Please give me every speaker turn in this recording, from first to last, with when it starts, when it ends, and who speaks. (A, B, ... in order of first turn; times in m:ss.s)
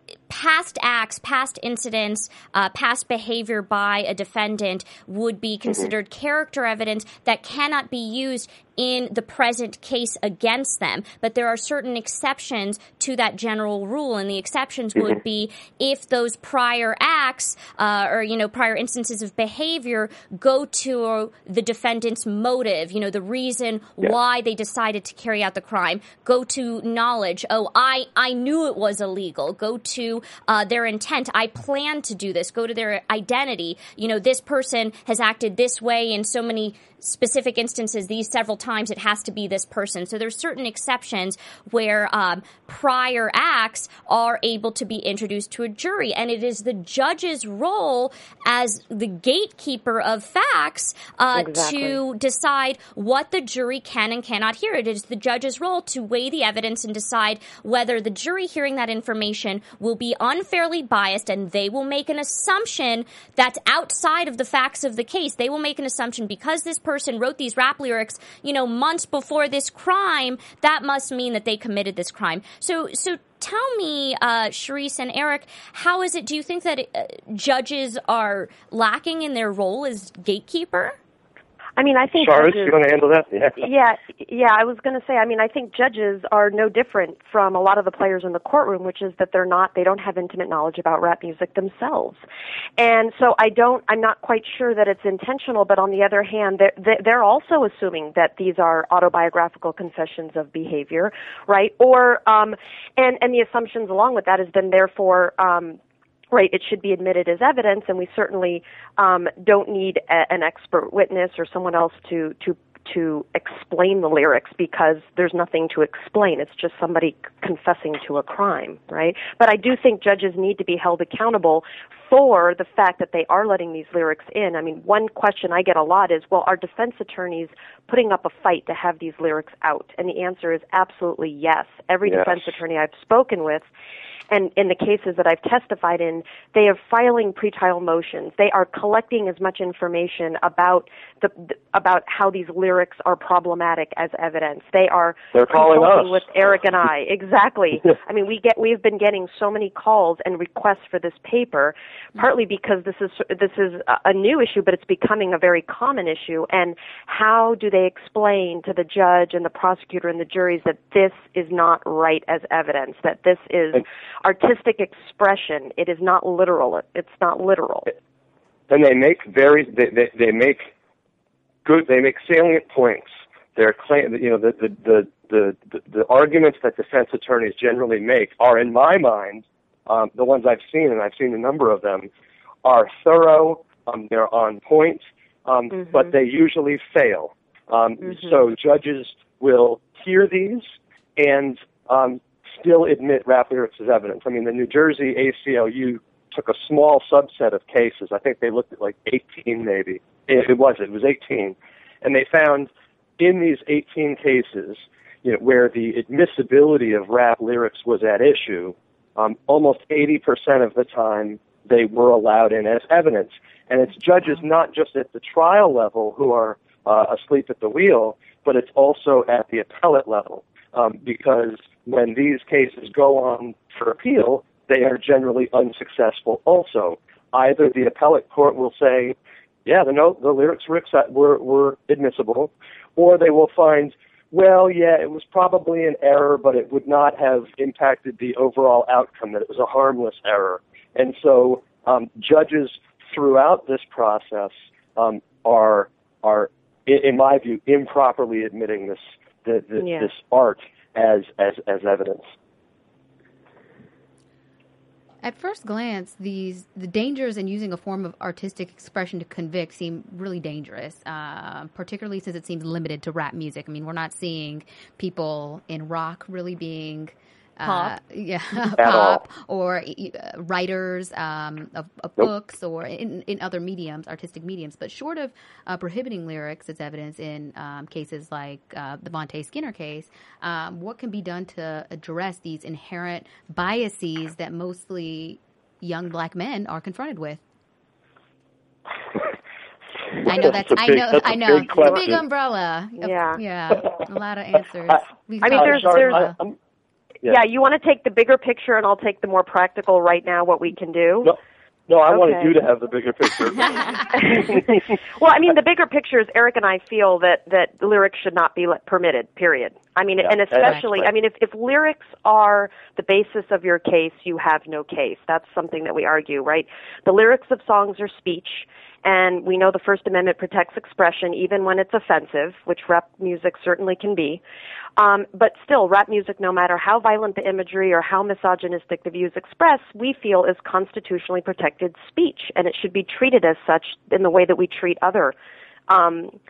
0:00.3-1:21.0 A
0:51.6-0:51.9 B
1:21.8-1:22.8 B
1:22.2-1:23.6 C
1:23.6-1:32.2 B
1:32.8-1:45.8 B
1:46.3-2:13.7 B
2:12.1-2:12.5 C
2:14.3-2:47.9 B
2:25.4-2:26.3 C
2:48.7-2:50.7 C
2:51.6-3:02.1 C
3:02.6-4:12.3 C
4:09.8-4:10.1 B
4:15.2-4:47.4 D
4:28.8-4:29.2 C
4:50.2-4:52.2 C
4:50.2-4:56.4 D
4:53.0-4:53.4 B
4:54.9-4:56.6 C
4:55.4-4:56.2 B
4:57.3-5:01.3 B
5:01.9-5:04.8 C
5:02.1-5:02.6 B
5:03.6-5:24.4 B
5:10.2-5:11.1 C
5:25.0-5:35.4 B
5:35.9-5:36.4 B